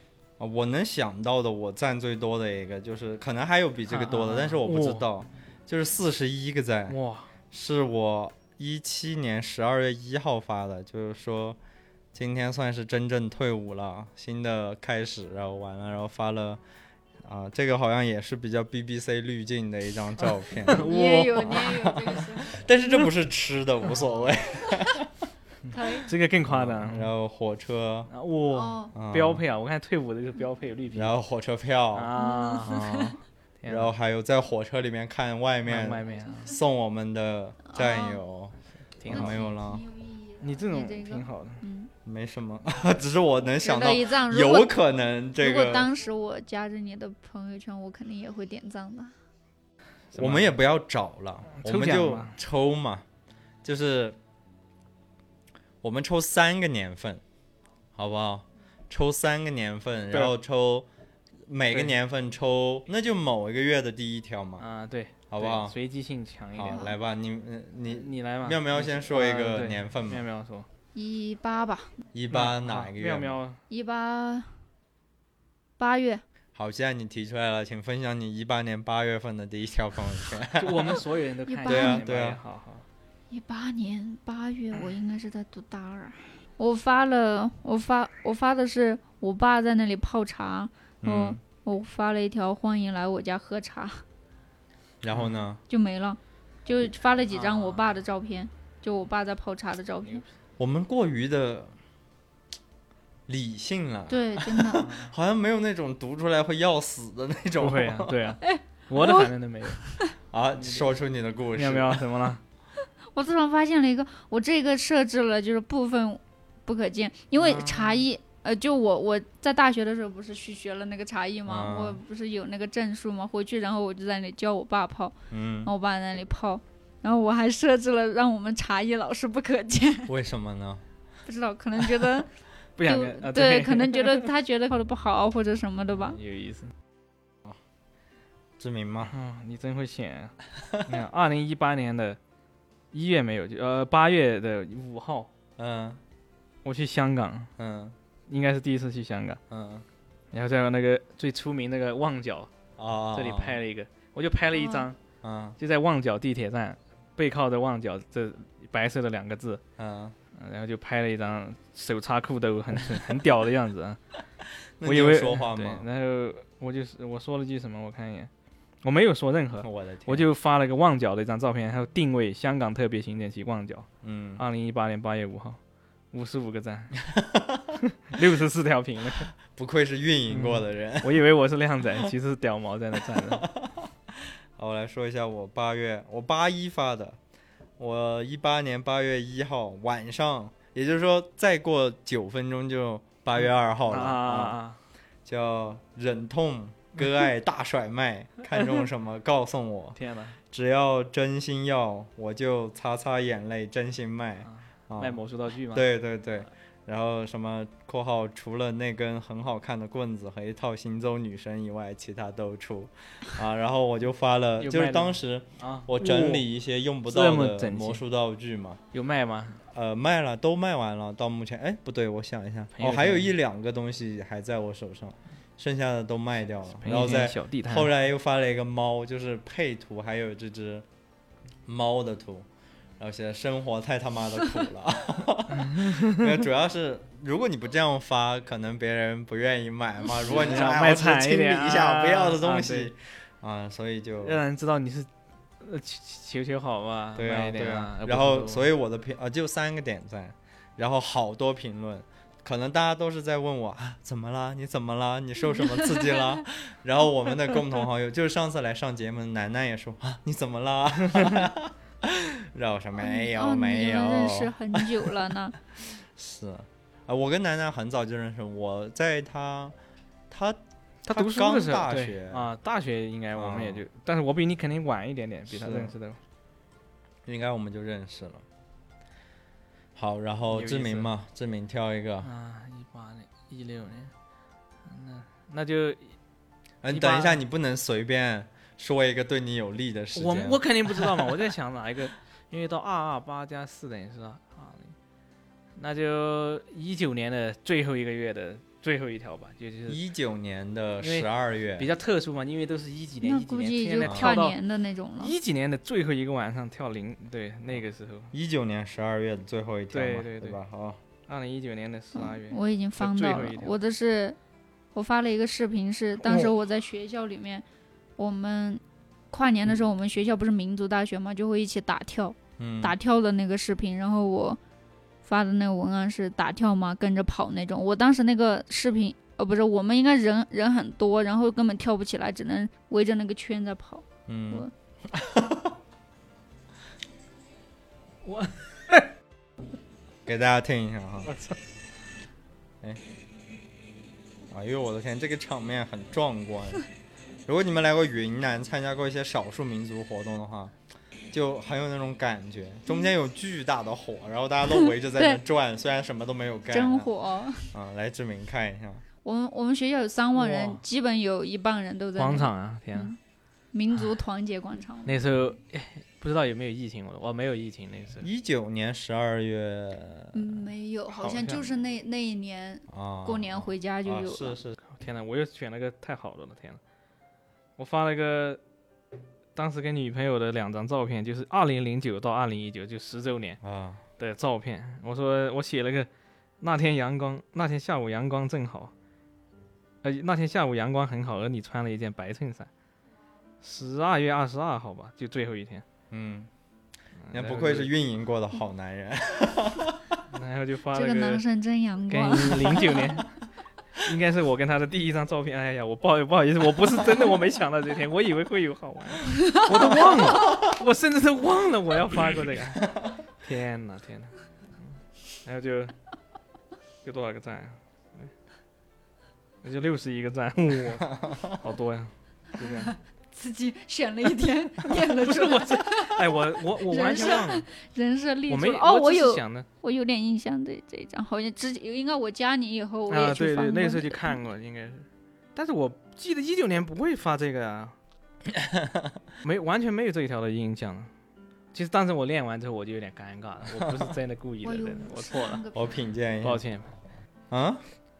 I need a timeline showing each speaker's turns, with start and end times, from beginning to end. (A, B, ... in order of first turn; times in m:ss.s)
0:00.4-0:07.0 A
0:03.9-0:05.0 B
0:06.9-0:07.3 B
0:07.5-0:11.6 A
0:12.1-0:16.6 A
0:17.2-0:25.1 A
0:20.2-0:21.7 B
0:20.7-0:22.6 C
0:25.7-0:27.1 B
0:25.7-0:26.1 C
0:26.4-0:28.1 A
0:28.1-0:31.1 B
0:28.5-0:28.9 C
0:28.9-0:29.4 A
0:30.9-0:32.1 A
0:31.9-0:32.8 B
0:32.1-0:33.1 C
0:32.6-0:39.8 A
0:33.6-0:33.9 B
0:35.6-0:36.5 B
0:37.6-0:38.2 C
0:39.0-0:39.5 B
0:39.1-0:41.9 C
0:40.4-0:41.6 B
0:42.0-0:45.9 A
0:43.6-0:44.8 C
0:45.4-0:49.1 C
0:50.1-0:50.5 B
0:50.2-0:53.0 A
0:51.5-0:52.3 B
0:53.6-0:54.2 A
0:55.8-0:57.2 A
0:57.9-1:00.9 A
1:01.5-1:04.6 A
1:04.6-1:06.9 B
1:05.3-1:05.7 A
1:06.5-1:10.2 A
1:06.6-1:06.9 C
1:07.8-1:10.7 B
1:10.9-1:11.9 C
1:12.1-1:13.4 A
1:12.3-1:13.6 B
1:13.7-1:14.6 C
1:15.8-1:16.2 C
1:16.5-1:21.0 A
1:20.5-1:22.8 B
1:21.5-1:22.0 C
1:21.6-1:22.4 A
1:23.3-1:34.0 C
1:31.0-1:31.4 A
1:35.0-1:35.6 A
1:35.1-1:35.4 B
1:35.7-1:40.2 C
1:37.3-1:37.9 B
1:40.6-1:41.7 A
1:43.3-1:48.2 A
1:44.1-1:44.8 C
1:44.8-1:45.1 B
1:47.6-1:49.8 B
1:48.4-1:50.1 C
1:50.3-1:52.1 A
1:50.6-1:50.9 B
1:51.5-1:52.4 B
1:53.1-2:10.1 C
1:57.4-1:58.0 B
2:01.5-2:02.0 A
2:05.3-2:05.7 A
2:10.1-2:10.8 A
2:11.2-2:12.3 C
2:12.8-2:14.3 B
2:12.8-2:16.2 C
2:16.0-2:16.7 B
2:18.6-2:19.1 A
2:19.1-2:20.3 B
2:20.5-2:20.9 A
2:20.8-2:22.2 B
2:22.9-2:25.3 B
2:25.6-2:26.0 A
2:26.6-2:27.5 B
2:27.6-2:28.0 A
2:28.3-2:29.4 B
2:29.5-2:29.8 A
2:30.3-2:32.5 B
2:32.8-2:33.6 A
2:33.1-2:35.0 B
2:34.5-2:34.9 C
2:35.2-2:35.6 A
2:35.6-2:39.6 B
2:39.8-2:40.2 A
2:40.3-2:44.0 B
2:44.8-2:45.8 A
2:44.8-2:48.3 B
2:48.8-2:53.9 B
2:49.6-2:50.3 A
2:54.0-2:54.4 A
2:54.4-2:55.6 B
2:56.1-2:57.0 B
2:57.0-2:57.7 A
2:57.8-2:59.3 B
2:59.4-3:01.2 A
3:00.3-3:03.5 B
3:03.2-3:07.2 A
3:07.8-3:14.6 A
3:13.9-3:14.8 B
3:15.2-3:20.0 A
3:20.0-3:20.4 B
3:20.5-3:38.8 A
3:24.4-3:25.9 B
3:34.6-3:36.4 B
3:37.0-3:38.0 B
3:38.9-3:39.6 B
3:39.7-3:50.8 A
3:42.7-3:43.3 B
3:46.8-3:47.9 B
3:51.7-3:52.5 A
3:53.0-4:04.4 A
3:55.5-3:56.4 B
4:00.2-4:02.9 B
4:04.2-4:05.1 B
4:05.6-4:08.7 B
4:07.1-4:25.1 A
4:15.5-4:16.4 C
4:23.0-4:25.6 C
4:26.1-4:29.7 A
4:30.3-4:32.5 A
4:31.0-4:36.2 B
4:33.3-4:33.8 A
4:35.5-4:35.9 A
4:37.2-4:38.4 A
4:40.0-4:42.3 A
4:40.5-4:41.1 B
4:42.2-4:44.1 B
4:44.8-4:46.1 B
4:46.8-4:51.3 A
4:46.9-4:47.4 B
4:50.1-4:54.9 B
4:55.8-5:00.0 B
4:59.9-5:01.9 A
5:01.0-5:04.6 B
5:03.2-5:05.3 C
5:04.0-5:04.4 A
5:05.2-5:08.3 B
5:08.3-5:11.0 A
5:09.9-5:10.6 B
5:11.3-5:13.8 B
5:12.1-5:14.4 C
5:14.9-5:17.6 C
5:16.2-5:16.5 A
5:18.2-5:24.6 C
5:22.6-5:22.9 A
5:25.2-5:34.7 C
5:34.3-5:35.7 A
5:38.2-5:39.1 B
5:40.2-5:41.3 A
5:41.3-5:41.5 B
5:44.5-5:46.8 A
5:47.5-5:50.7 A
5:51.3-5:57.1 A
5:54.7-5:55.4 C
5:56.7-5:57.7 C
5:57.7-5:59.0 A
5:59.2-6:03.2 C
6:00.3-6:00.8 B
6:02.2-6:03.1 B
6:03.7-6:05.2 C
6:05.0-6:08.3 B
6:08.2-6:10.4 A
6:10.3-6:14.6 C
6:11.1-6:11.7 B
6:12.9-6:14.8 A
6:14.9-6:16.8 B
6:17.8-6:18.6 B
6:19.6-6:23.6 B
6:23.6-6:24.0 A
6:24.2-6:26.1 B
6:26.6-6:28.9 B
6:30.0-6:32.7 B
6:33.6-6:35.8 B
6:36.1-6:36.5 A
6:37.2-6:37.9 B
6:37.3-6:40.2 A
6:40.3-6:41.4 B
6:40.9-6:43.1 C
6:42.1-6:43.4 B
6:44.0-6:54.3 B
6:49.3-6:50.6 C
6:55.4-6:55.9 B
6:57.0-6:58.3 B
6:59.6-7:02.9 B
7:02.6-7:14.4 C
7:04.9-7:07.6 B
7:08.5-7:09.6 B
7:13.1-7:17.9 B
7:18.5-7:19.2 A
7:19.4-7:21.1 B
7:21.7-7:25.6 B
7:23.8-7:24.1 A
7:24.6-7:25.9 C
7:25.7-7:26.6 A
7:26.4-7:26.9 B
7:27.5-7:27.8 A